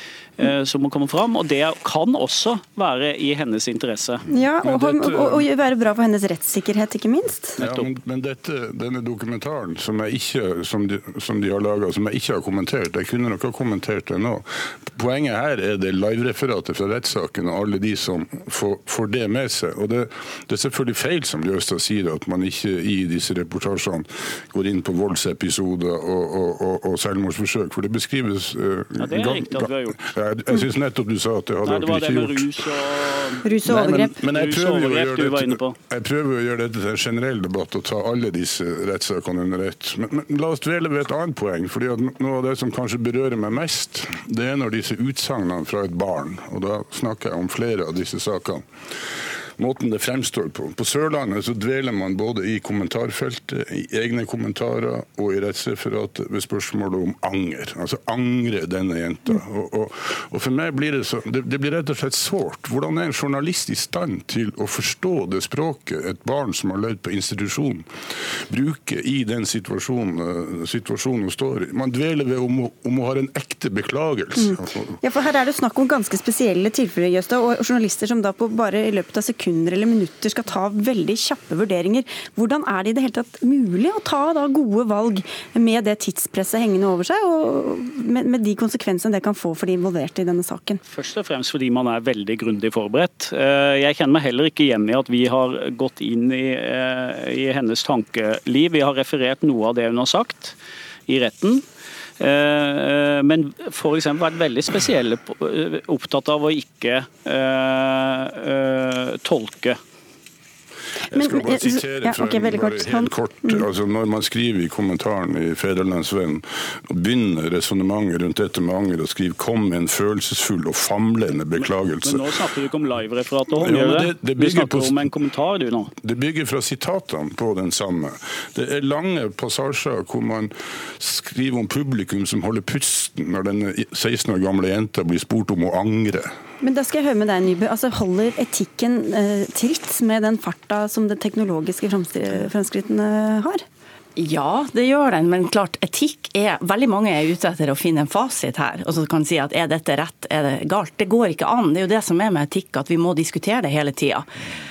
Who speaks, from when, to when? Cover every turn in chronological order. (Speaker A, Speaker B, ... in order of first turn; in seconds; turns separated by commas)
Speaker A: 0.4-4.2, Speaker B: 4.3-7.6, Speaker C: 4.6-5.4, Speaker C: 7.6-75.0, Speaker A: 29.0-30.0, Speaker A: 31.6-35.8, Speaker B: 33.4-34.1, Speaker B: 74.4-90.8, Speaker A: 90.8-100.5, Speaker A: 101.1-101.6, Speaker A: 102.2-109.8, Speaker C: 111.1-122.3, Speaker B: 111.1-113.6, Speaker A: 121.6-125.9, Speaker C: 123.5-125.1, Speaker C: 126.0-136.3, Speaker B: 136.6-143.6, Speaker D: 144.2-154.3